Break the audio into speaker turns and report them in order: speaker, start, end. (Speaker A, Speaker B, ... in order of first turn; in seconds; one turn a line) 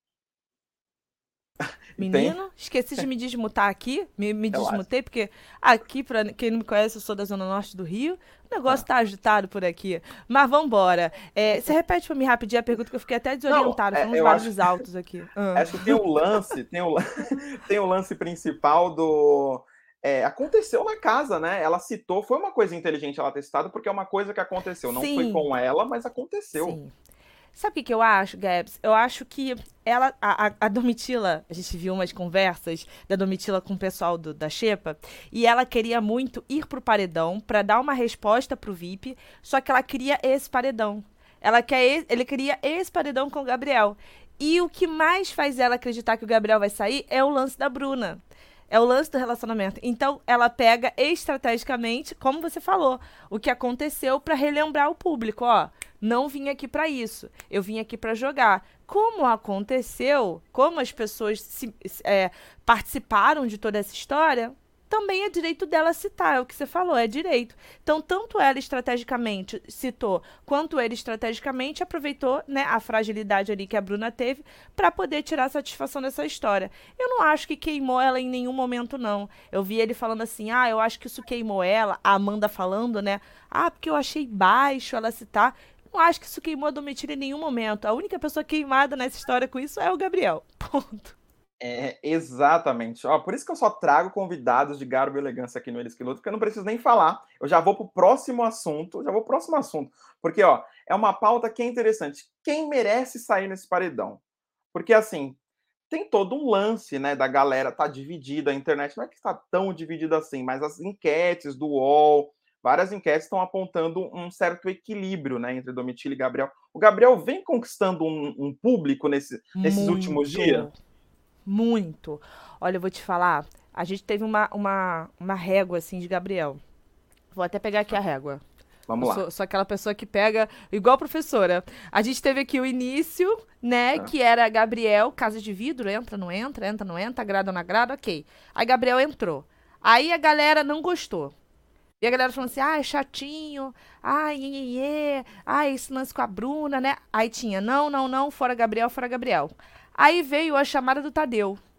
Speaker A: 2.0-2.4
Speaker B: 2.0-16.0
Speaker A: 4.5-4.8
Speaker A: 13.5-14.7
Speaker A: 15.6-26.8
Speaker B: 24.9-25.5
Speaker B: 26.6-26.9
Speaker B: 27.5-48.2
Speaker B: 48.7-91.2
Speaker A: 91.6-104.2
Speaker A: 104.7-105.4
Speaker A: 105.9-120.7
Speaker B: 119.6-120.8
Speaker B: 121.5-126.6
Speaker B: 127.3-128.4
Speaker A: 128.9-129.2
Speaker B: 129.0-141.3
Speaker B: 142.0-151.6